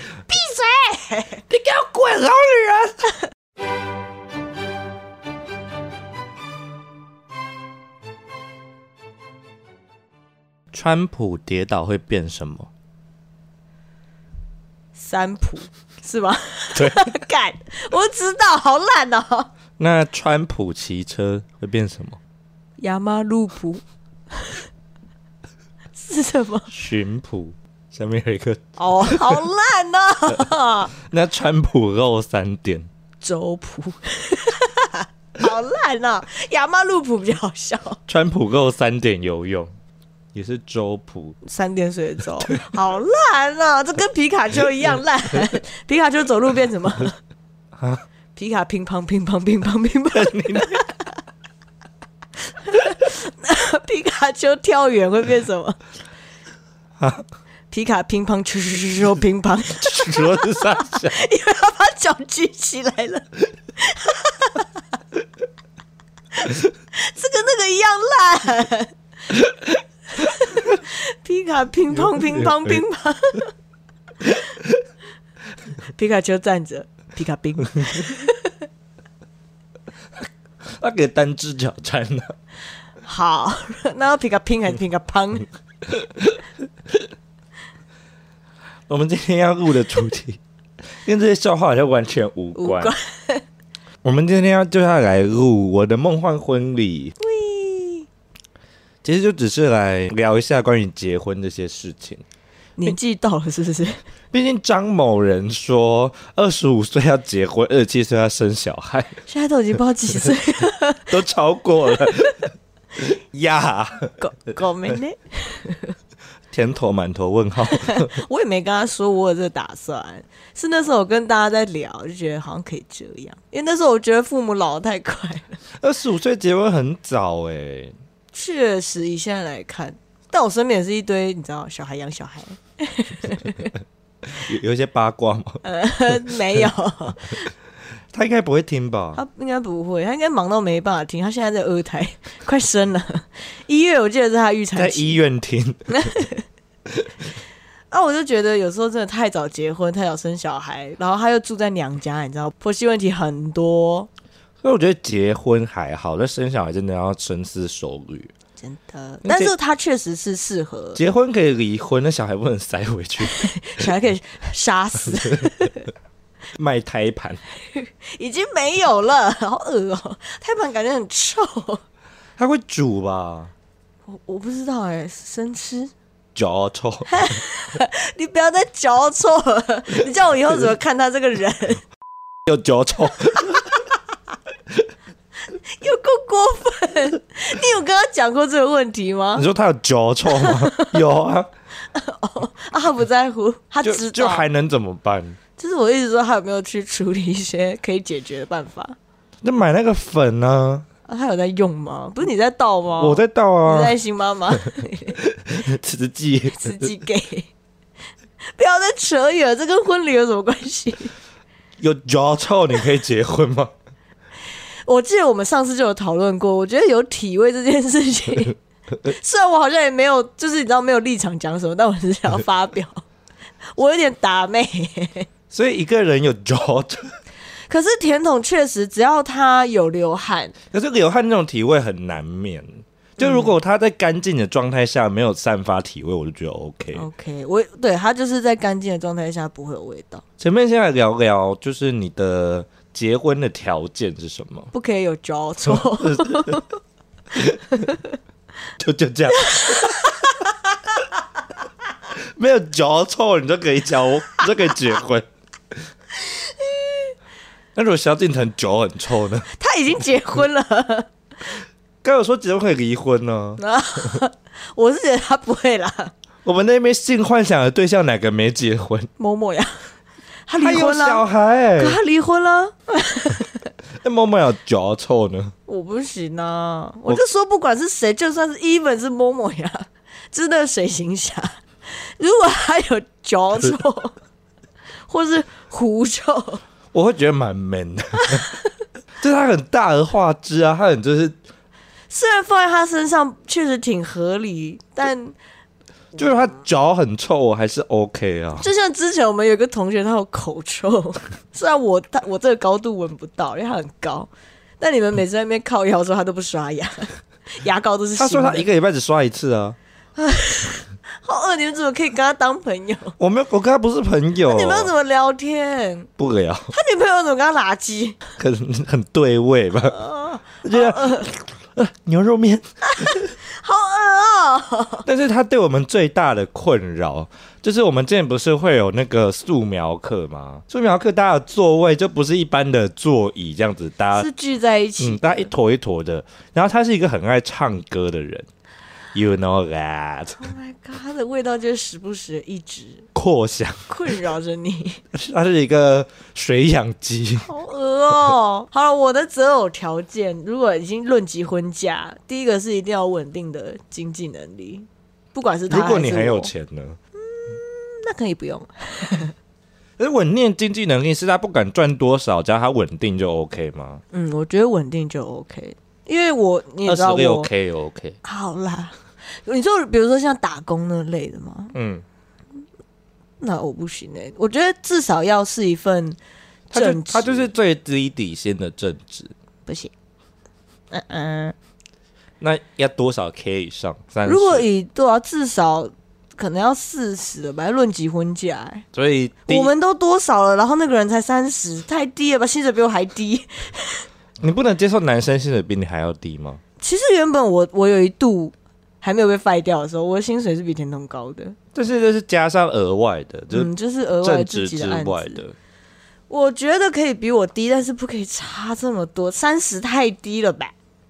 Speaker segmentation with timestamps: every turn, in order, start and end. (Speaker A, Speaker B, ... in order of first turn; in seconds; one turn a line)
Speaker A: 0.3-1.4
Speaker B: 1.5-3.0
Speaker B: 10.7-12.7
Speaker A: 14.9-19.5
Speaker B: 16.7-17.1
Speaker B: 19.8-22.2
Speaker A: 22.8-24.7
Speaker A: 25.9-26.7
Speaker B: 26.7-29.4
Speaker A: 28.8-30.9
Speaker B: 31.0-32.9
Speaker A: 33.2-38.0
Speaker B: 38.1-39.7
Speaker B: 40.3-41.4
Speaker A: 41.4-47.2
Speaker B: 47.8-48.0
Speaker A: 48.4-50.9
Speaker B: 50.1-50.8
Speaker A: 52.6-55.8
Speaker A: 57.7-64.8
Speaker B: 59.8-61.2
Speaker A: 66.4-68.9
Speaker B: 69.3-69.7
Speaker A: 70.1-73.5
Speaker B: 72.1-72.8
Speaker B: 74.3-74.8
Speaker A: 75.8-78.6
Speaker B: 80.8-82.3
Speaker A: 83.0-85.5
Speaker B: 86.0-86.4
Speaker B: 88.9-90.4
Speaker B: 91.0-92.9
Speaker A: 92.5-93.4
Speaker B: 94.0-97.1
Speaker A: 97.2-98.1
Speaker B: 99.0-102.2
Speaker A: 102.8-104.0
Speaker B: 104.3-109.2
Speaker A: 109.3-111.1
Speaker B: 111.1-114.2
Speaker A: 111.9-112.1
Speaker A: 114.2-115.9
Speaker B: 116.5-118.2
Speaker A: 117.7-125.6
Speaker B: 125.8-128.0
Speaker A: 128.3-133.7
Speaker B: 134.3-135.6
Speaker A: 135.6-137.5
Speaker B: 138.1-139.2
Speaker A: 139.1-145.2
Speaker B: 144.8-146.0
Speaker A: 146.0-146.4
Speaker A: 147.9-154.1
Speaker B: 154.6-158.3
Speaker A: 158.6-161.0
Speaker B: 159.2-159.5
Speaker B: 160.9-163.5
Speaker A: 163.2-165.9
Speaker B: 166.5-167.4
Speaker A: 167.6-171.8
Speaker B: 172.4-173.5
Speaker A: 174.1-175.9
Speaker B: 176.3-177.4
Speaker A: 177.1-181.8
Speaker B: 182.5-183.7
Speaker A: 185.5-189.4
Speaker B: 189.3-191.5
Speaker A: 190.3-190.8
Speaker A: 191.9-194.4
Speaker B: 193.8-195.4
Speaker A: 195.6-198.9
Speaker B: 199.4-200.8
Speaker A: 201.1-205.2
Speaker B: 203.0-203.9
Speaker B: 205.2-206.9
Speaker A: 206.5-207.5
Speaker A: 208.5-211.1
Speaker B: 211.8-213.7
Speaker A: 214.8-223.0
Speaker A: 223.7-225.3
Speaker B: 225.5-227.1
Speaker A: 227.7-230.5
Speaker B: 230.7-237.1
Speaker A: 233.2-233.5
Speaker A: 236.9-240.2
Speaker B: 240.4-244.7
Speaker A: 244.7-246.6
Speaker B: 245.7-246.6
Speaker B: 247.3-247.8
Speaker B: 248.8-250.1
Speaker A: 249.5-250.1
Speaker B: 252.1-255.3
Speaker A: 256.2-257.1
Speaker B: 257.7-259.5
Speaker A: 259.5-261.1
Speaker B: 262.0-263.6
Speaker A: 263.6-266.1
Speaker B: 266.4-269.1
Speaker A: 269.2-269.9
Speaker A: 270.5-271.2
Speaker B: 270.6-272.0
Speaker A: 271.8-273.7
Speaker B: 274.0-275.5
Speaker A: 275.7-284.1
Speaker A: 285.1-286.6
Speaker B: 286.9-288.4
Speaker A: 288.3-288.6
Speaker B: 289.2-291.4
Speaker A: 292.1-295.4
Speaker B: 296.1-298.7
Speaker A: 298.6-308.6
Speaker B: 308.2-309.8
Speaker A: 310.1-313.1
Speaker B: 313.2-314.9
Speaker A: 314.4-316.1
Speaker B: 316.2-316.7
Speaker A: 316.7-318.2
Speaker B: 318.4-320.0
Speaker A: 319.9-321.3
Speaker B: 320.6-323.3
Speaker A: 322.9-325.0
Speaker B: 325.0-334.3
Speaker A: 334.1-335.5
Speaker B: 335.0-338.5
Speaker B: 339.1-340.4
Speaker A: 340.4-343.1
Speaker B: 343.1-343.9
Speaker A: 343.9-345.0
Speaker B: 345.1-347.5
Speaker A: 347.4-356.5
Speaker B: 355.7-357.0
Speaker A: 357.1-359.3
Speaker B: 360.0-364.0
Speaker A: 364.1-367.5
Speaker B: 366.9-368.2
Speaker A: 368.2-371.7
Speaker B: 371.7-372.0
Speaker A: 373.4-376.2
Speaker A: 376.7-377.5
Speaker B: 376.7-379.3
Speaker A: 379.6-379.9
Speaker A: 380.9-381.5
Speaker B: 382.4-384.7
Speaker A: 384.2-388.9
Speaker B: 388.9-389.7
Speaker A: 389.5-394.1
Speaker B: 394.4-396.6
Speaker A: 396.8-401.6
Speaker B: 401.7-403.7
Speaker A: 403.5-405.4
Speaker B: 404.2-405.5
Speaker A: 406.3-410.7